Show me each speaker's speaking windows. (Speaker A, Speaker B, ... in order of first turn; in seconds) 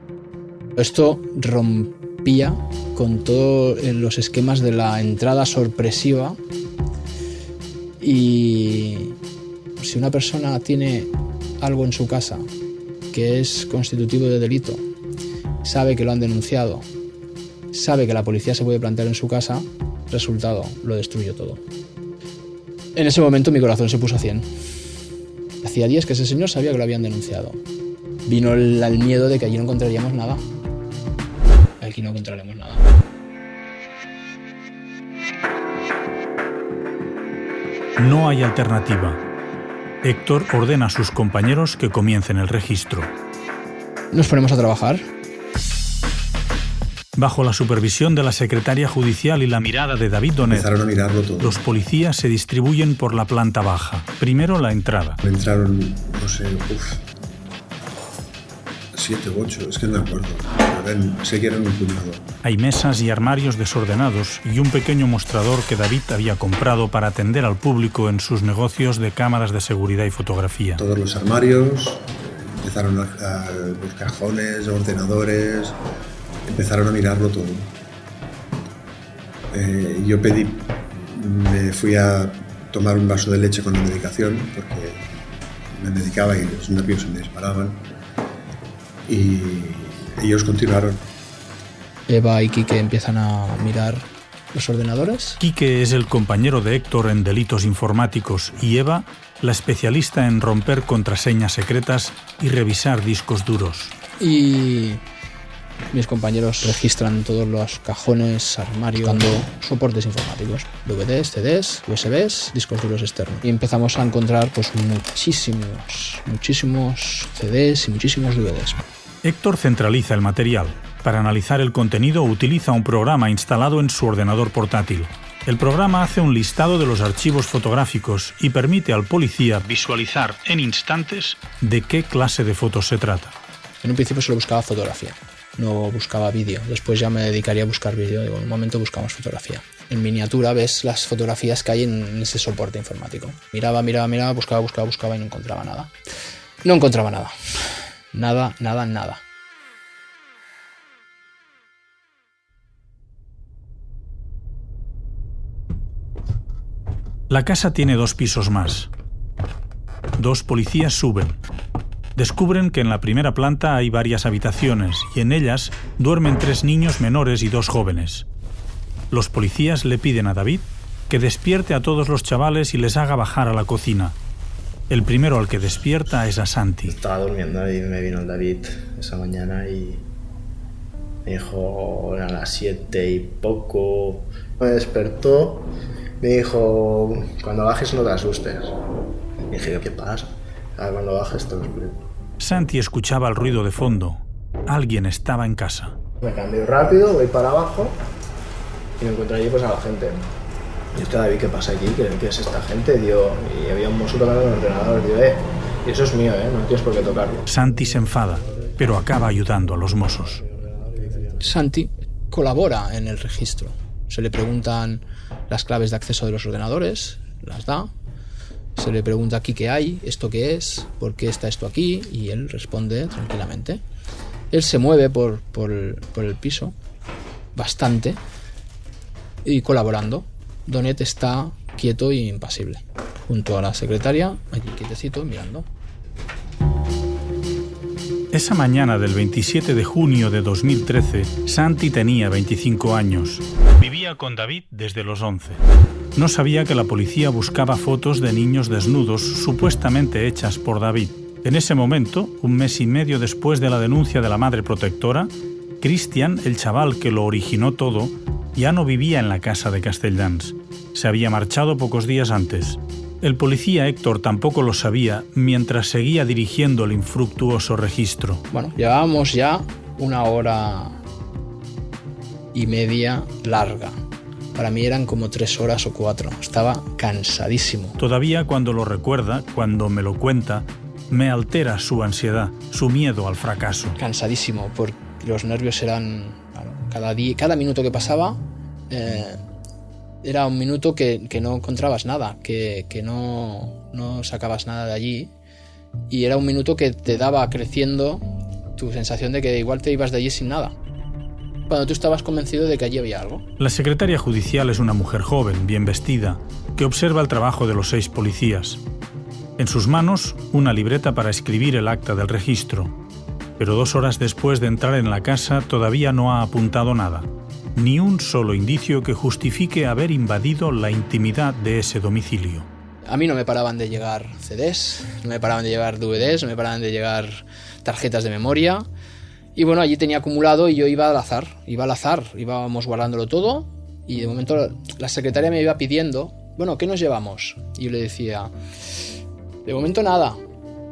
Speaker A: 0.8-6.4, 8.0-9.2, 9.8-11.1, 11.6-12.5, 13.1-14.8, 15.6-16.9, 17.7-21.6, 22.9-24.5, 25.6-27.6, 28.2-30.4, 31.8-32.9, 44.1-45.0, 92.1-95.4, 104.2-105.0, 105.9-118.8, 133.8-145.9, 146.6-149.2, 211.4-217.9, 218.8-223.8, 224.5-226.7, 227.6-228.2, 229.4-235.7, 268.5-271.0, 272.5-274.0, 274.5-278.0, 284.0-289.4, 290.2-295.3, 296.1-300.7, 301.7-303.4, 323.1-328.9, 329.5-338.5, 339.6-340.4
Speaker B: 38.0-39.2, 40.0-43.1, 47.1-50.7, 51.4-55.2, 62.4-70.8, 95.4-103.9, 119.2-133.3, 157.3-158.9, 160.2-161.4, 162.2-168.2, 169.1-174.2, 174.9-176.9, 192.4-195.9, 207.4-210.4, 238.3-245.6, 246.1-268.4, 278.0-284.0, 303.6-308.8, 309.6-312.9, 313.6-322.7
Speaker C: 50.5-51.6, 55.2-57.0, 58.9-62.3, 70.8-75.8, 76.5-77.7, 79.5-85.0, 85.7-87.8, 89.1-91.0
Speaker D: 176.9-180.0, 181.2-185.7, 186.2-188.8, 189.5-192.0, 196.2-198.0, 199.0-200.2, 200.9-207.5, 210.6-211.4